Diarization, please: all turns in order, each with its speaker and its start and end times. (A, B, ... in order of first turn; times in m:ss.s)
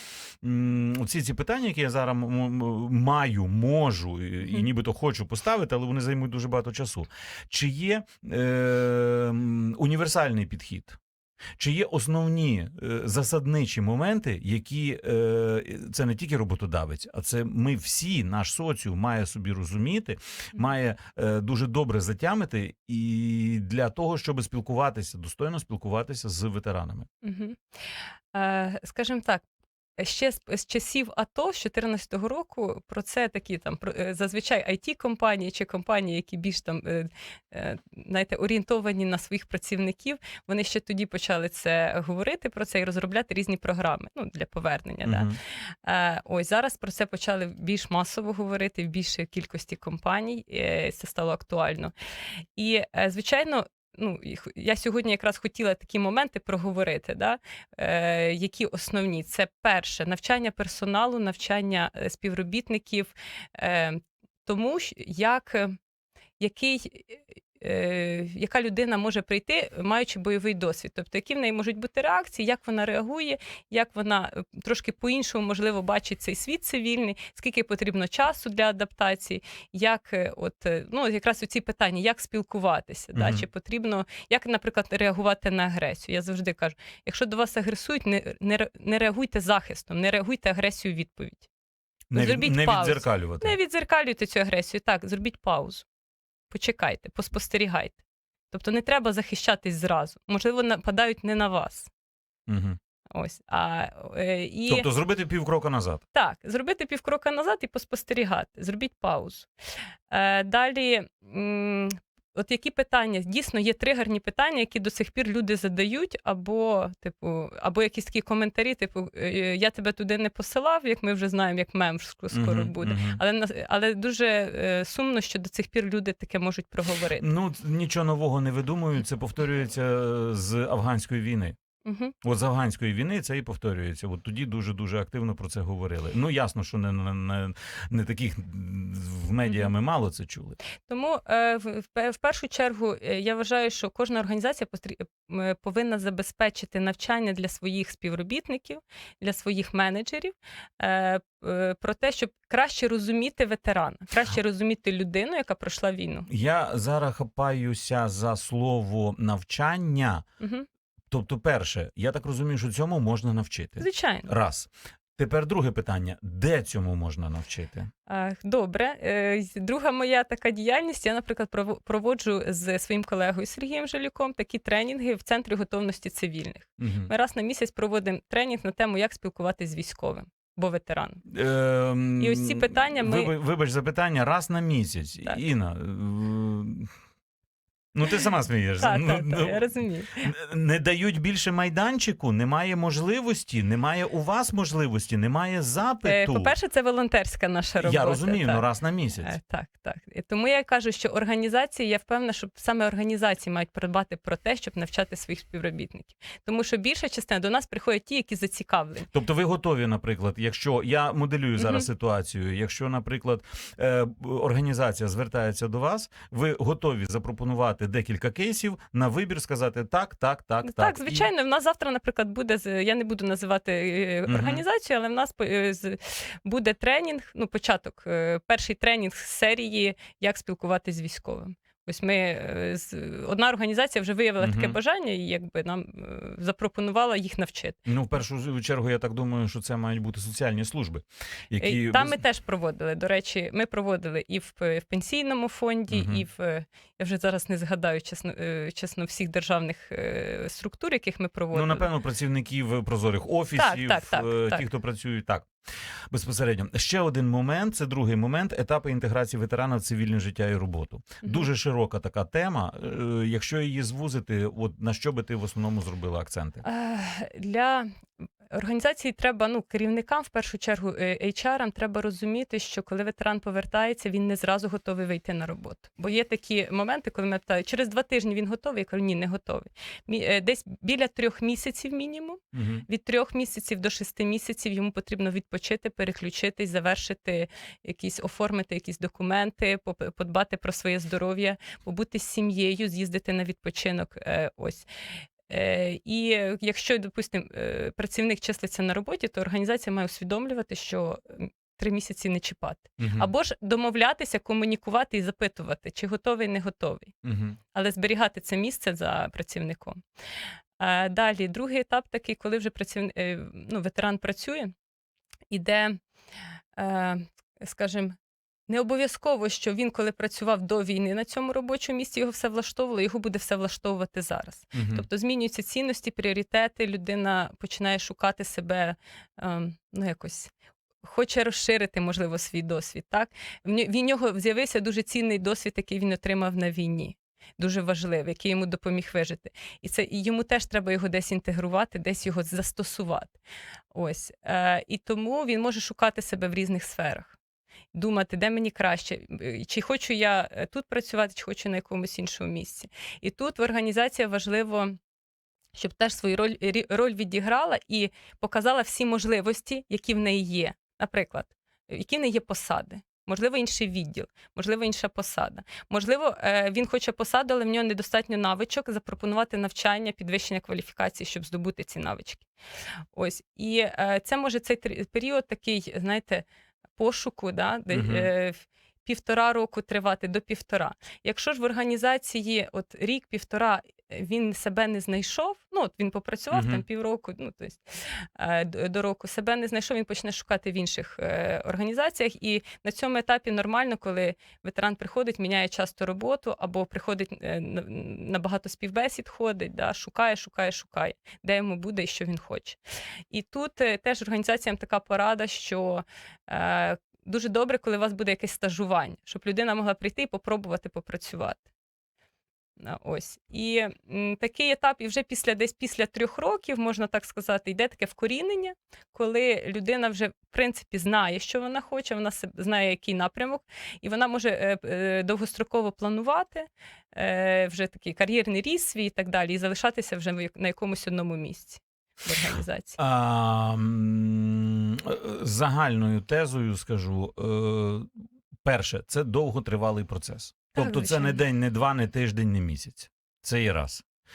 0:00.4-0:11.0 A
0:11.6-0:27.1 A
0:27.2-0:27.6 B
0:28.3-0:29.4 B
0:30.0-0:51.9 B
0:45.0-0:45.4 A
0:52.6-1:05.8 B
1:06.4-1:31.5 B
1:23.1-1:23.4 A
1:32.1-1:33.6 A
1:32.1-1:35.8 B
1:36.5-1:38.0 B
1:38.5-1:41.9 B
1:42.5-1:42.8 A
1:43.1-1:44.9 B
1:44.7-1:46.0 A
1:46.1-1:49.5 B
1:50.1-2:07.3 B
2:02.3-2:03.2 A
2:07.2-2:11.6 A
2:11.8-2:12.2 B
2:12.2-2:20.6 A
2:20.8-2:36.3 B
2:36.3-2:40.2 A
2:40.4-2:40.7 B
2:41.1-2:47.9 A
2:43.8-2:44.3 B
2:48.1-3:01.2 B
2:56.8-2:57.1 A
3:01.3-3:06.9 A
3:02.2-3:03.3 B
3:07.9-3:16.5 A
3:08.8-3:10.2 B
3:16.0-3:18.7 B
3:17.8-3:19.3 A
3:19.2-3:29.1 B
3:29.1-3:41.3 A
3:31.6-3:31.9 B
3:40.6-3:57.8 B
3:44.3-3:44.6 A
3:54.4-3:54.8 A
3:57.9-4:02.2 A
4:01.6-4:11.9 B
4:05.9-4:06.2 A
4:11.5-4:15.5 A
4:13.6-4:14.6 B
4:16.1-4:26.6 A
4:26.6-4:27.9 B
4:28.5-4:54.9 B
4:42.5-4:42.8 A
4:55.5-5:07.1 B
5:03.0-5:03.3 A
5:07.2-5:07.6 A
5:07.7-5:10.0 B
5:10.8-5:14.7 B
5:15.5-5:16.0 B
5:16.8-5:18.2 B
5:18.7-5:30.5 B
5:24.7-5:25.0 A
5:31.0-5:43.4 B
5:43.9-5:47.4 B
5:47.9-5:55.0 B
5:55.8-6:12.5 B
6:13.2-6:16.4 B
6:17.0-6:42.8 B
6:17.9-6:18.3 A
6:26.5-6:26.8 A
6:43.3-6:51.6 B
6:52.8-7:13.0 B
7:13.0-7:18.1 A
7:18.6-7:24.0 A
7:20.8-7:21.4 B